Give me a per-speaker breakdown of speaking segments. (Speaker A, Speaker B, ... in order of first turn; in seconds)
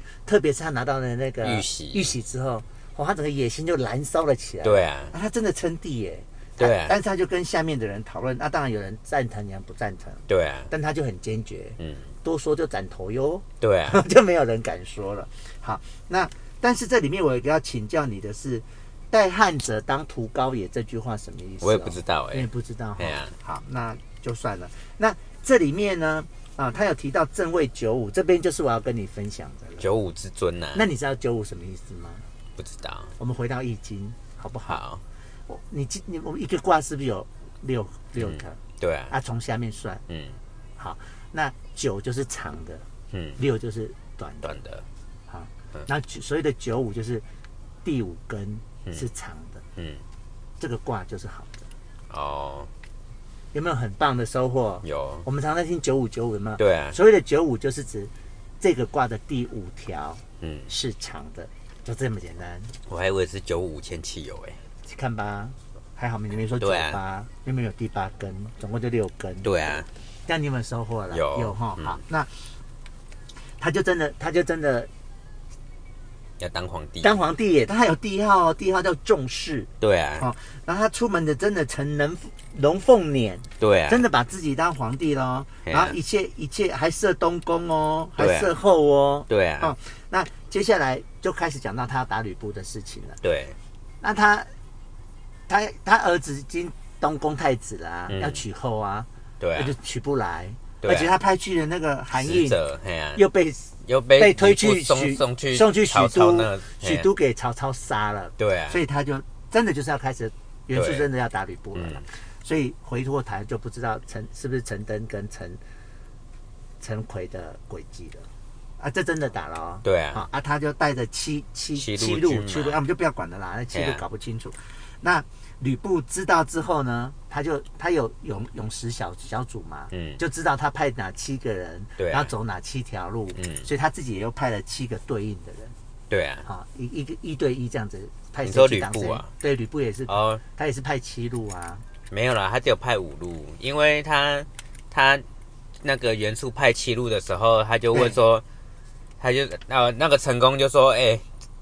Speaker A: 0.2-29.8, 30.7-32.2, 33.2-34.8, 35.5-40.0, 40.8-42.8, 43.4-44.5, 45.3-47.2, 47.8-49.6, 50.6-51.7, 53.5-62.7, 64.8-69.5, 70.3-72.3, 73.6-74.9, 77.0-93.2, 94.0-94.5, 95.5-102.6, 103.2-115.6, 116.8-118.2, 118.8-135.7, 136.4-141.8
Speaker B: 1.4-2.1, 4.6-5.1, 6.6-7.0, 10.3-10.7, 11.8-12.1, 13.6-14.0, 21.6-22.5, 23.0-23.3, 29.8-30.9, 32.6-33.1, 34.7-35.0, 38.2-39.1, 40.1-40.4, 43.1-43.4, 44.4-44.9, 49.8-50.0, 52.1-52.7, 54.8-55.2, 56.6-57.0, 60.4-60.7, 62.9-64.6, 66.6-67.0, 69.4-69.9, 71.1-72.0, 76.4-77.2, 79.8-80.3, 83.6-84.0, 85.7-86.0, 88.2-88.5, 89.3-89.7, 93.2-93.6, 98.1-98.4, 99.4-99.7, 100.8-101.1, 102.1-103.2, 103.8-107.1, 108.4-108.8, 110.7-111.1, 111.7-112.0, 119.8-120.2, 121.7-122.8, 123.7-124.0, 129.9-130.2, 132.0-132.3, 133.3-133.7, 136.1-136.4, 138.4-139.3, 140.1-140.4, 142.1-145.2, 145.8-148.4, 149.2-151.2